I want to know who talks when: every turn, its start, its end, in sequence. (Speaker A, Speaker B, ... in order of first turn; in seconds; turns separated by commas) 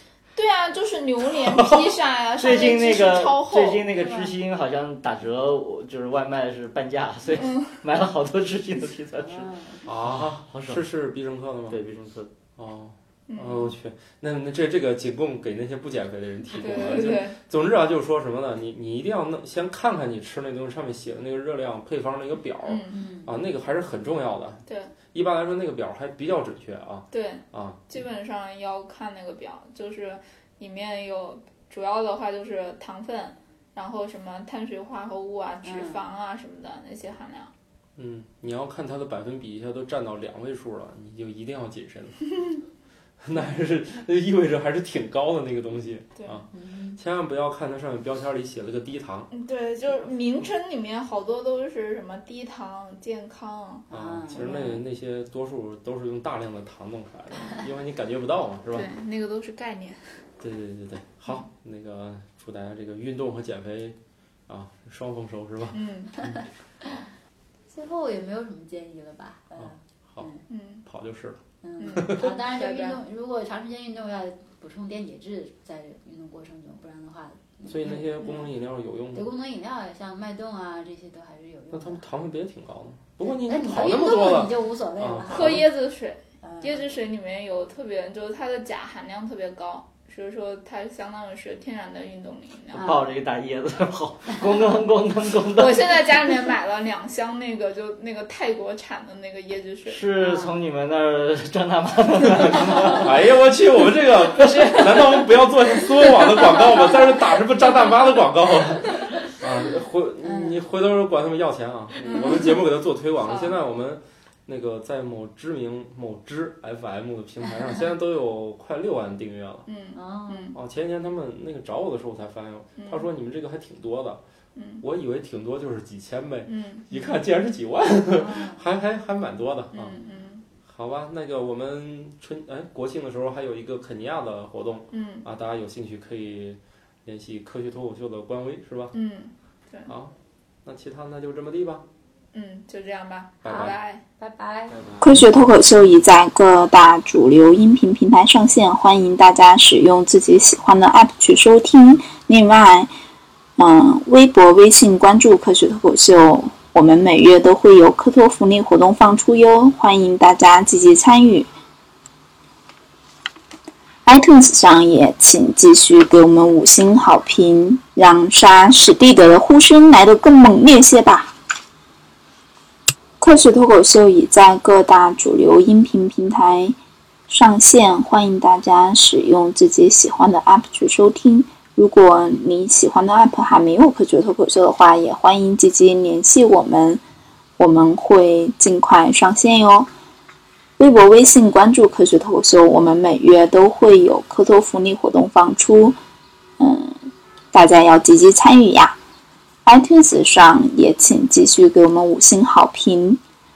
Speaker A: 0.3-3.9, Speaker B: 1.4-1.8, Speaker C: 2.4-10.9, Speaker A: 7.3-7.7, Speaker D: 9.2-9.8, Speaker B: 9.8-11.8, Speaker C: 11.7-12.3, Speaker B: 12.6-27.9, Speaker A: 13.3-13.7, Speaker A: 16.5-17.4, Speaker A: 22.6-23.0, Speaker D: 22.9-23.3, Speaker A: 24.7-24.9, Speaker A: 27.1-37.5, Speaker D: 35.6-36.0, Speaker B: 38.0-42.3, Speaker B: 43.2-49.3, Speaker D: 46.5-47.0, Speaker A: 49.3-53.9, Speaker D: 53.9-54.8, Speaker B: 53.9-58.9, Speaker A: 58.7-60.0, Speaker B: 60.4-64.0, Speaker B: 64.5-66.4, Speaker A: 65.7-66.1, Speaker D: 66.2-67.0, Speaker D: 67.7-70.4, Speaker B: 69.6-70.3, Speaker A: 70.5-70.8, Speaker B: 70.8-72.3, Speaker D: 71.6-78.5, Speaker A: 71.8-73.0, Speaker B: 77.7-79.3, Speaker D: 79.1-82.0, Speaker B: 81.7-85.7, Speaker D: 83.3-85.6, Speaker A: 85.3-92.9, Speaker D: 86.4-86.8, Speaker D: 92.7-93.0, Speaker C: 92.7-96.0, Speaker A: 95.6-100.0, Speaker C: 99.8-103.3, Speaker D: 100.2-100.6, Speaker B: 102.4-119.7, Speaker A: 104.3-105.4, Speaker A: 106.3-107.1, Speaker D: 110.2-110.6, Speaker A: 112.0-112.6, Speaker A: 113.2-113.6, Speaker A: 119.7-120.5, Speaker D: 119.9-120.5, Speaker B: 120.5-124.2, Speaker A: 122.8-123.1, Speaker A: 124.5-124.8, Speaker B: 124.8-130.0, Speaker A: 126.5-126.8, Speaker D: 128.1-128.6, Speaker A: 129.7-130.4, Speaker B: 130.6-138.9, Speaker A: 134.9-135.3, Speaker A: 138.9-139.9, Speaker B: 139.9-140.1, Speaker B: 140.6-141.8, Speaker A: 142.3-144.0, Speaker B: 143.4-143.8, Speaker D: 143.5-144.8, Speaker C: 144.7-145.3, Speaker E: 145.0-152.9, Speaker E: 153.6-161.5, Speaker E: 164.0-171.3, Speaker E: 173.2-176.8, Speaker E: 177.3-187.0, Speaker E: 187.6-189.9, Speaker E: 190.8-196.0, Speaker E: 196.6-197.0, Speaker E: 197.5-198.9, Speaker E: 199.7-203.2